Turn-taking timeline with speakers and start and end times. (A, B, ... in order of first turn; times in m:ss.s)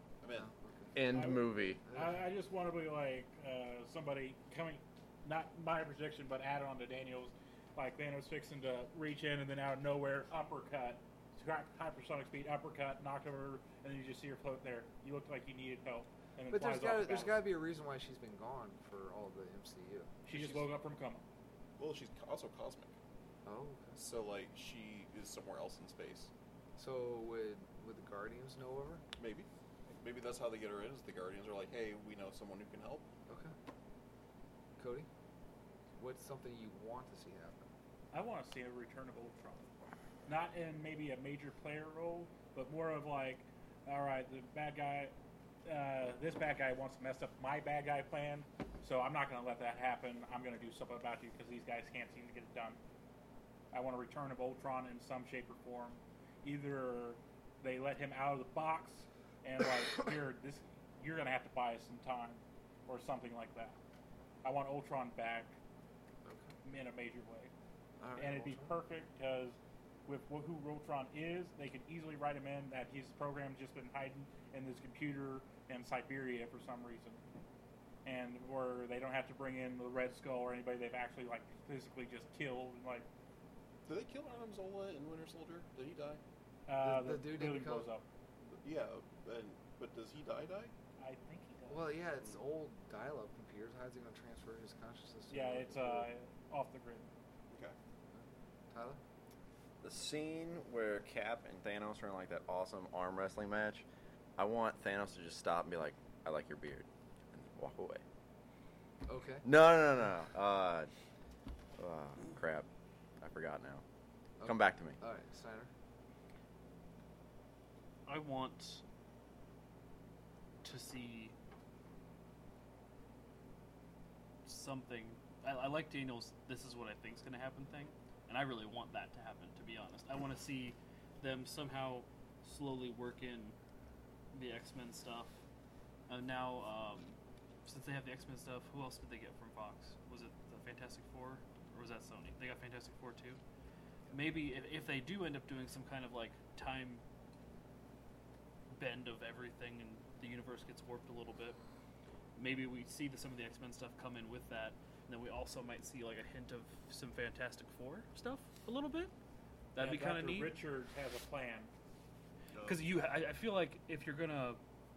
0:00.2-0:00.5 A
0:00.3-0:01.0 B
0:01.0-0:01.8 C
0:01.1-0:17.4 D
0:16.5-0:20.1 B
0:20.3-0:21.2 D
0:20.3-0:20.7 A
0:21.8-0:22.9 A
0:23.4-0:24.0 B
0:24.0-0:26.3 A
0:26.8-0:29.0 B
0:29.2-0:33.1 A
0:33.3-0:33.5 B
0:34.8-0:35.1 B
0:36.0-0:37.7 B
0:38.1-0:39.7 D
0:40.3-0:45.1 D
0:45.6-0:52.8 D
0:53.7-1:03.8 D
1:04.4-1:05.5 D
1:06.6-1:07.5 D
1:08.0-1:08.7 B
1:08.2-1:17.2 D
1:18.0-1:23.1 D
1:23.9-1:26.2 A
1:26.7-1:28.1 D
1:26.8-1:27.9 B
1:28.5-1:30.7 A
1:31.0-1:31.9 D
1:31.7-1:36.1 B
1:35.3-1:37.1 D
1:37.5-1:37.8 A
1:38.1-1:39.0 B
1:39.8-1:43.9 C
1:44.4-1:48.0 C
1:49.1-1:49.4 B
1:49.4-1:50.9 C
1:51.8-1:52.7 C
1:53.2-1:53.8 C
1:54.4-1:55.7 B
1:54.4-1:55.0 C
1:58.1-1:58.8 E
2:00.6-2:01.3 E
2:04.5-2:13.6 E
2:14.3-2:15.4 E
2:16.1-2:23.4 E
2:24.1-2:27.0 E
2:28.7-2:31.6 E
2:32.4-2:39.1 E
2:39.7-2:40.6 E
2:39.8-2:41.7 D
2:42.5-2:42.8 A
2:42.6-2:44.6 E